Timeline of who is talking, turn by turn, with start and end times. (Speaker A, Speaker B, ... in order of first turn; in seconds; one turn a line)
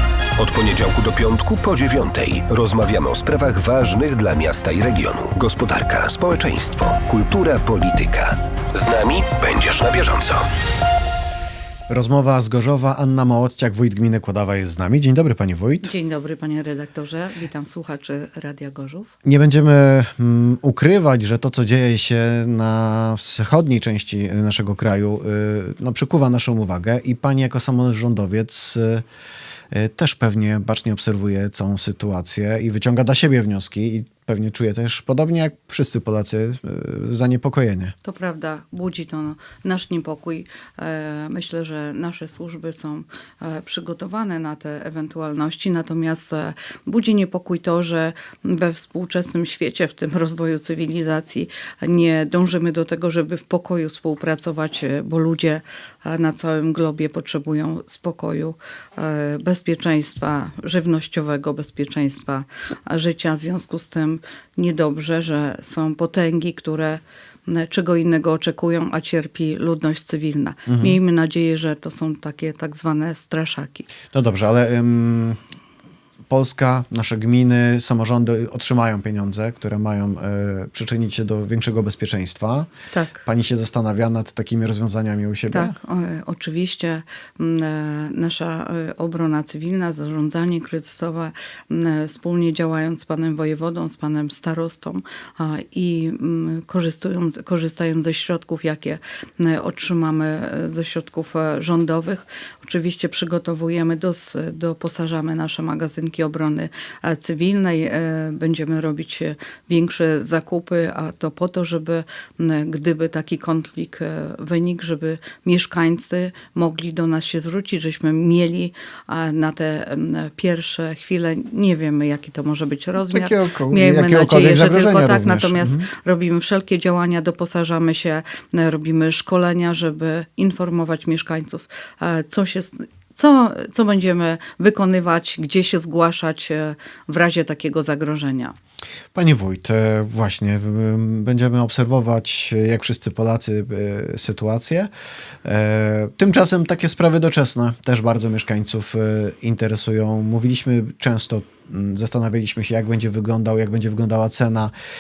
Speaker A: 0.4-10.5
Speaker B: 11.9-15.9
Speaker C: 15.8-19.1
Speaker B: 19.2-29.1
Speaker B: 29.7-38.0
Speaker C: 38.0-73.9
Speaker B: 70.7-71.0
Speaker B: 74.1-75.4
Speaker B: 76.3-82.7
Speaker C: 82.9-83.2
Speaker B: 83.2-85.8
Speaker C: 85.5-138.5
Speaker B: 123.0-125.9
Speaker B: 139.2-144.9
Speaker B: 145.4-154.7